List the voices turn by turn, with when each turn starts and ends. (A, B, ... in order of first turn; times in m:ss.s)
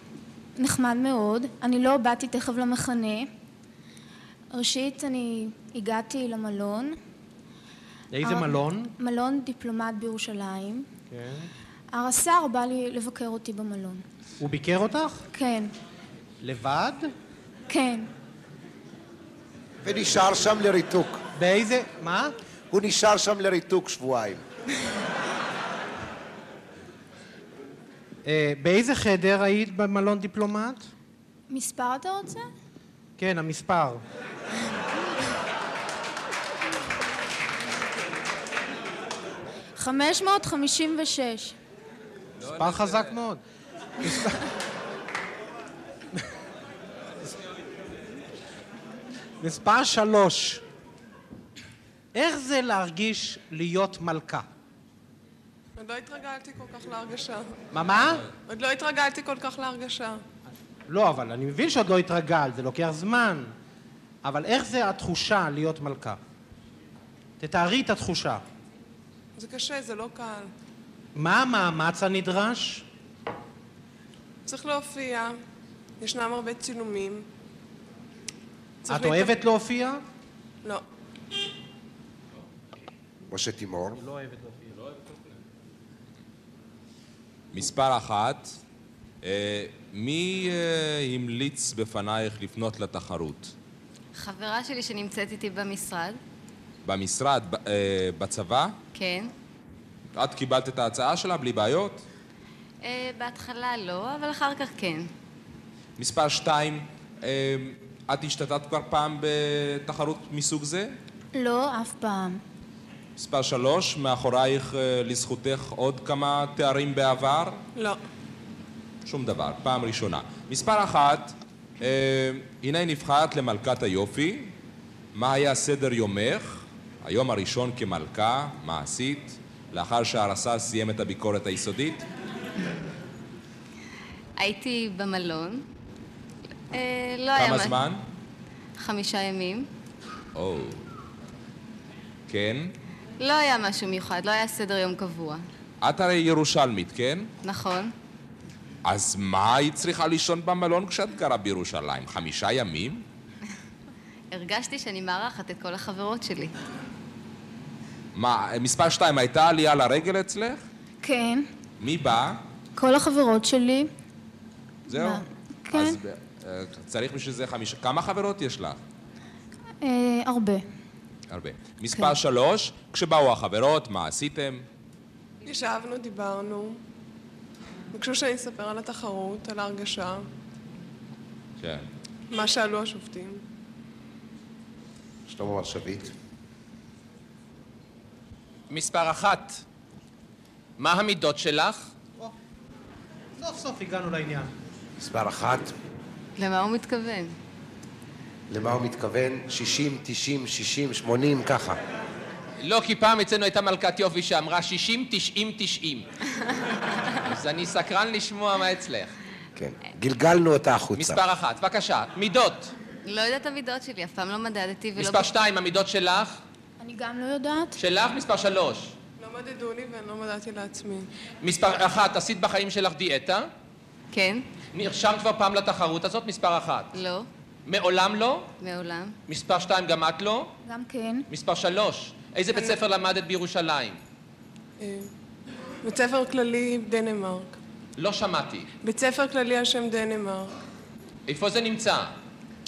0:00.6-0:03.3 A
0:04.5-0:07.0 A
0:08.1-0:08.9 B
0:08.2-0:10.9 A
0:11.1-0:11.5 B
0:11.9-0:14.0 A
0:14.4-0:15.2 B
0:15.3-0:15.7 A
0:16.4-0:17.1 B
0:17.7-0:18.1 A
0:19.8-0:21.2 C
0:21.4-0:22.3 B
0:22.7-0:24.4 C
0:28.2-0:30.9 B
0:31.5-0:32.5 A
0:33.2-0:34.0 B
0:39.8-0:41.5 A
0:42.4-0:43.1 D
0:42.5-0:43.4 B
0:44.0-0:44.5 B
0:49.4-0:50.6 B
0:52.1-0:54.4 B
0:55.8-0:57.6 E
0:57.7-0:58.3 B
0:58.5-1:00.2 E
1:00.9-1:03.5 B
1:04.2-1:06.2 B
1:07.4-1:08.4 B
1:09.4-1:10.5 E
1:11.1-1:12.8 B
1:14.4-1:15.4 E
1:16.0-1:17.3 E
1:18.8-1:19.3 E
1:18.9-1:20.0 B
1:23.3-1:24.0 C
1:24.0-1:24.9 B
1:27.5-1:28.6 D
1:29.2-1:33.5 D
1:34.1-1:36.2 F
1:36.8-1:38.8 D
1:38.9-1:39.3 F
1:40.1-1:42.0 D
1:42.8-1:45.1 F
1:46.0-1:50.9 D
1:51.3-1:52.4 A
1:53.2-1:57.6 D
1:59.0-2:04.5 D
2:05.1-2:12.0 D
2:14.4-2:15.6 F
2:16.7-2:17.8 F
2:17.3-2:18.0 D
2:18.8-2:19.7 F
2:20.3-2:20.8 D
2:22.3-2:22.7 D
2:23.2-2:25.4 F
2:25.8-2:27.3 D
2:27.4-2:27.9 F
2:28.8-2:33.0 D
2:34.3-2:36.5 F
2:38.1-2:40.6 D
2:41.0-2:41.5 A
2:41.8-2:42.4 D
2:42.8-2:43.9 A
2:44.9-2:46.0 A
2:44.9-2:48.8 D
2:49.8-2:50.6 A
2:51.3-2:54.6 D
2:55.4-2:56.8 E
2:57.9-3:00.3 E
3:01.6-3:01.8 D
3:02.3-3:03.4 E
3:05.3-3:06.1 C
3:08.7-3:09.6 G
3:10.8-3:11.9 G
3:13.4-3:14.5 B
3:15.0-3:15.7 C
3:16.4-3:17.3 F
3:18.5-3:21.8 C
3:22.6-3:26.1 G
3:27.2-3:29.1 G
3:29.6-3:31.2 C
3:30.9-3:32.7 G
3:33.0-3:35.3 F
3:35.0-3:36.4 G
3:36.8-3:37.8 A
3:37.8-3:38.9 G
3:39.2-3:41.1 E
3:41.4-3:43.5 G
3:44.1-3:44.4 F
3:44.7-3:46.9 G
3:46.9-3:47.3 F
3:47.6-3:48.5 G
3:48.6-3:49.2 F
3:49.3-3:50.5 G
3:50.6-3:51.3 A
3:51.3-3:54.0 G
3:54.8-3:55.1 E
3:55.8-3:57.6 E
3:58.0-3:58.7 G
3:58.8-4:00.5 E
4:01.3-4:02.1 G